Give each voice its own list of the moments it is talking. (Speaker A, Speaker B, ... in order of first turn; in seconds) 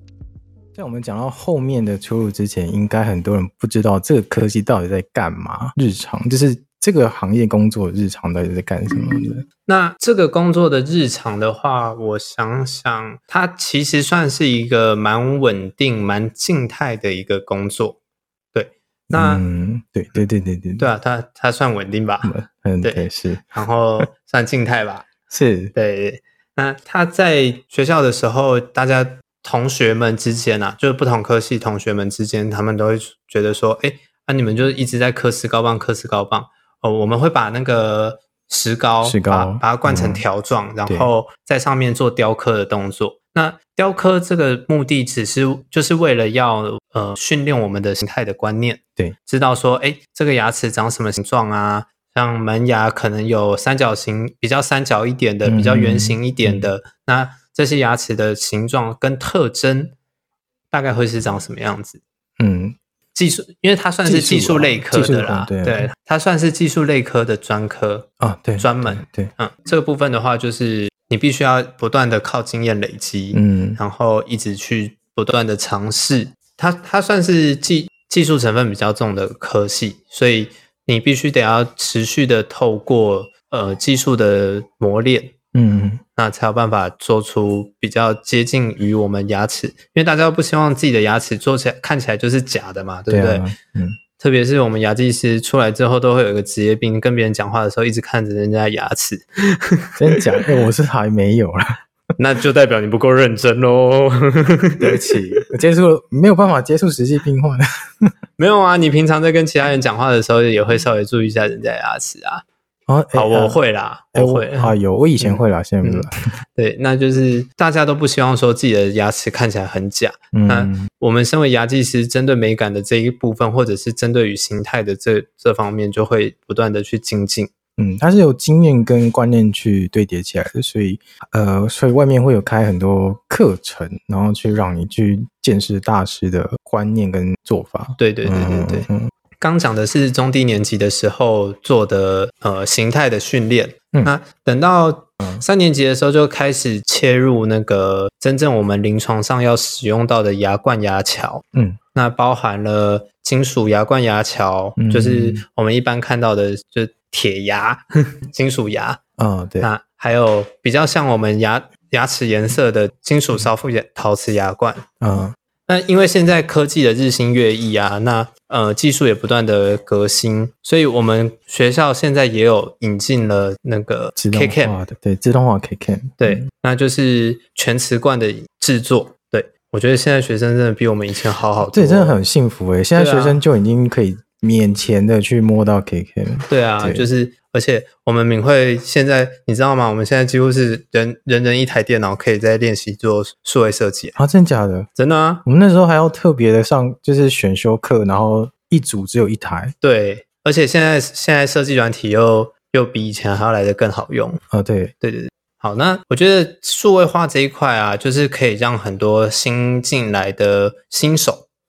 Speaker A: 0.8-9.5, 19.1-20.9, 22.2-24.1, 25.3-25.7, 39.0-40.2, 55.5-56.7, 62.4-62.8, 64.0-65.9, 68.2-69.3, 73.3-73.8, 85.5-86.0, 93.1-94.0, 100.0-101.8, 104.8-108.1, 112.9-113.6, 114.1-116.2, 120.3-120.9, 127.8-139.1, 151.5-151.8, 154.8-155.4, 159.2-159.7, 165.0-165.3, 174.2-176.4, 181.7-187.1, 194.2-194.9, 195.4-199.8, 204.5-204.9
Speaker B: 9.7-18.0, 18.5-19.4, 20.8-25.1, 25.7-60.0, 60.7-62.0, 63.1-85.3, 86.2-93.5, 94.2-100.5, 102.2-105.2, 108.4-112.4, 113.1-127.5, 138.0-138.9, 139.4-151.4, 151.9-159.0, 159.6-164.8, 165.7-174.8, 176.2-182.2, 182.9-183.4, 186.5-194.2, 194.9-195.4, 199.8-204.4, 205.0-211.4